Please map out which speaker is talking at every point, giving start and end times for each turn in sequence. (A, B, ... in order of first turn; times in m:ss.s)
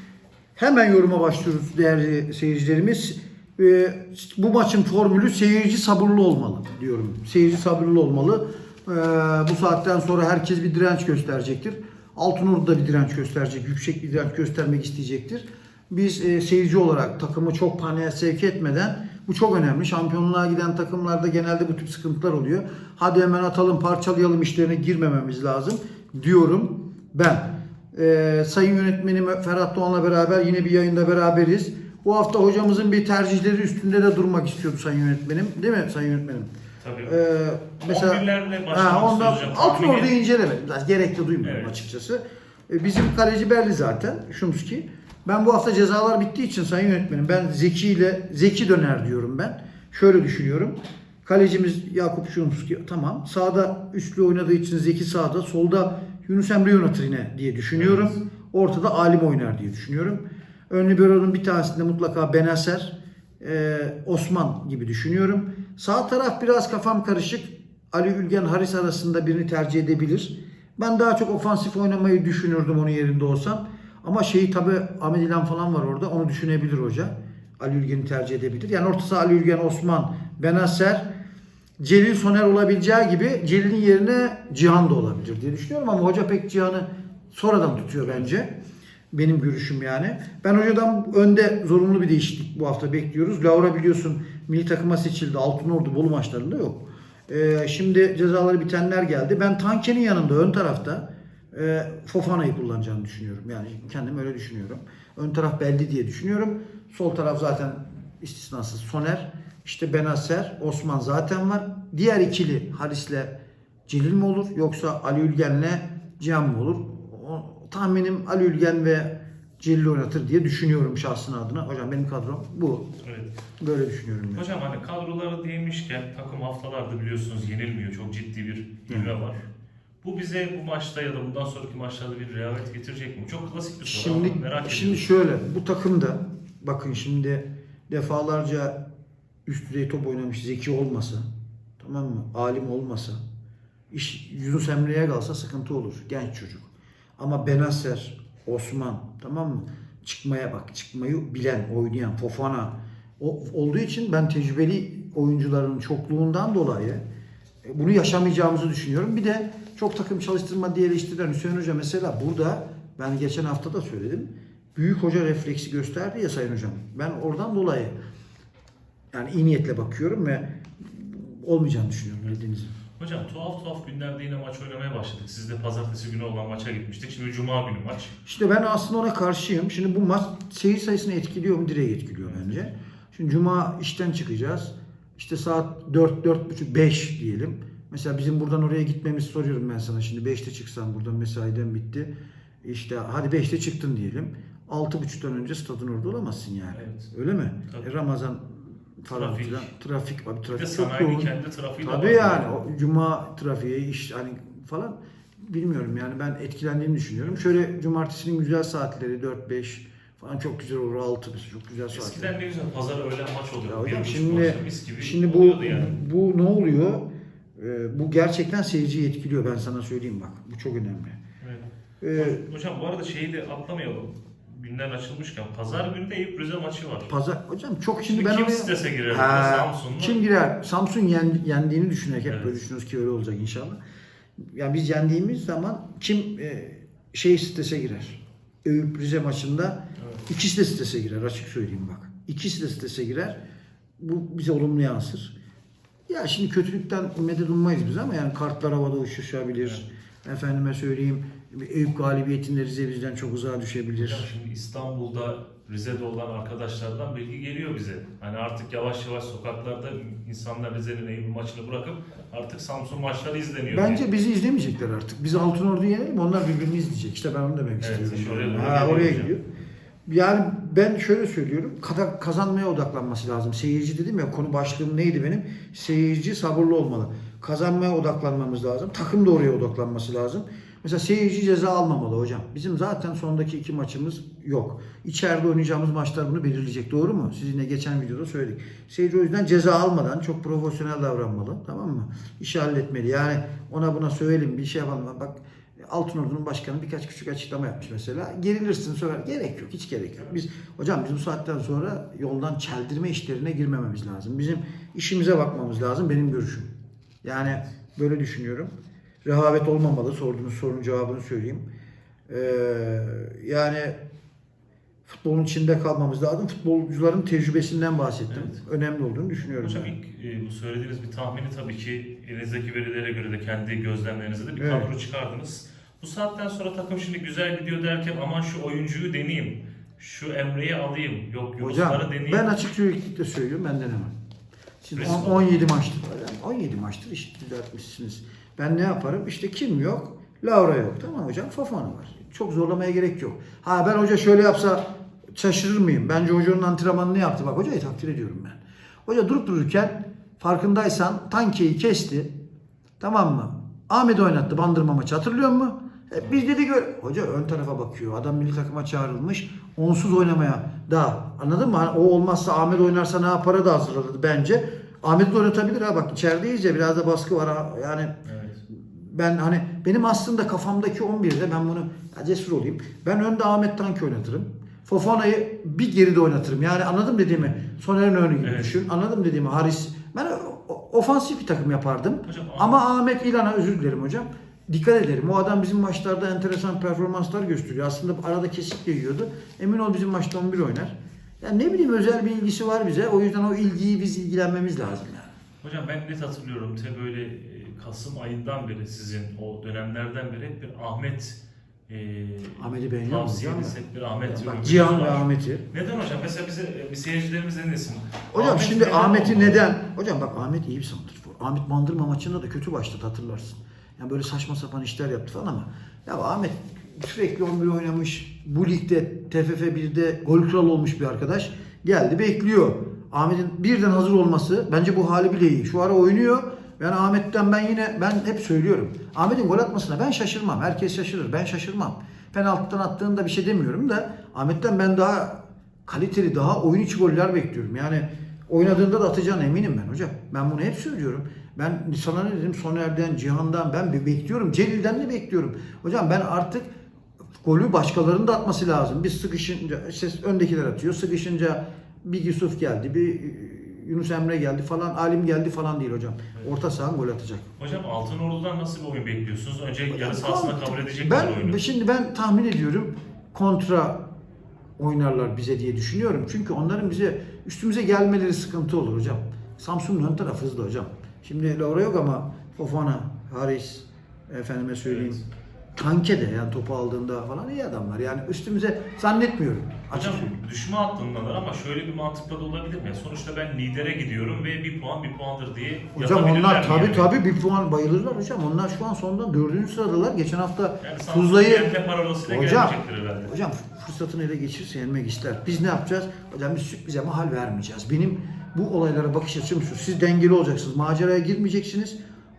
0:00.6-0:36.5 A
0:36.8-0:37.1 B
0:37.0-1:21.0 A
0:37.8-0:40.1 B
0:41.4-0:41.7 B
0:57.7-0:58.1 B
1:21.8-1:28.5 A
1:29.1-1:53.3 A
1:53.9-2:02.9 A
2:03.0-2:03.3 B
2:03.6-2:04.5 A
2:04.3-2:09.4 B
2:10.0-2:15.1 B
2:13.8-2:18.8 A
2:19.4-2:21.3 A
2:21.8-2:23.2 A
2:23.9-2:37.0 A
2:37.6-2:47.9 A
2:49.1-2:52.8 A
2:53.0-2:58.1 B
2:58.2-3:12.1 A
3:02.2-3:02.7 B
3:12.6-3:32.3 A
3:16.7-3:17.1 B
3:19.1-3:19.7 B
3:20.5-3:22.4 B
3:31.9-3:36.0 B
3:33.6-3:41.2 A
3:41.4-3:47.1 B
3:42.0-3:42.4 A
3:47.1-3:53.8 A
3:48.1-3:50.2 B
3:52.3-3:52.6 B
3:54.5-4:03.4 A
4:00.0-4:00.2 B
4:04.0-4:05.3 A
4:06.1-4:14.2 A
4:14.0-4:24.0 B
4:23.7-4:29.4 A
4:27.8-4:29.3 B
4:30.1-5:06.7 A
5:07.2-5:08.7 A
5:09.2-5:11.6 A
5:12.3-5:14.0 A
5:15.0-5:19.9 A
5:18.3-5:18.6 B
5:19.6-5:32.4 B
5:24.6-5:24.9 A
5:31.6-5:34.1 A
5:34.8-5:52.3 A
5:34.9-5:35.7 B
5:53.0-6:08.2 A
6:08.2-6:08.6 B
6:08.7-6:35.3 A
6:18.4-6:18.8 B
6:22.2-6:22.8 B
6:35.6-6:49.6 B
6:42.6-6:45.7 A
6:48.3-7:26.7 A
7:27.4-7:37.5 A
7:37.6-7:41.6 B
7:39.9-7:44.0 A
7:44.8-7:55.2 A
7:54.8-7:55.2 B
7:55.7-8:00.4 A
7:59.9-8:07.1 B
8:05.9-8:11.7 A
8:10.8-8:13.3 B
8:12.3-8:22.0 A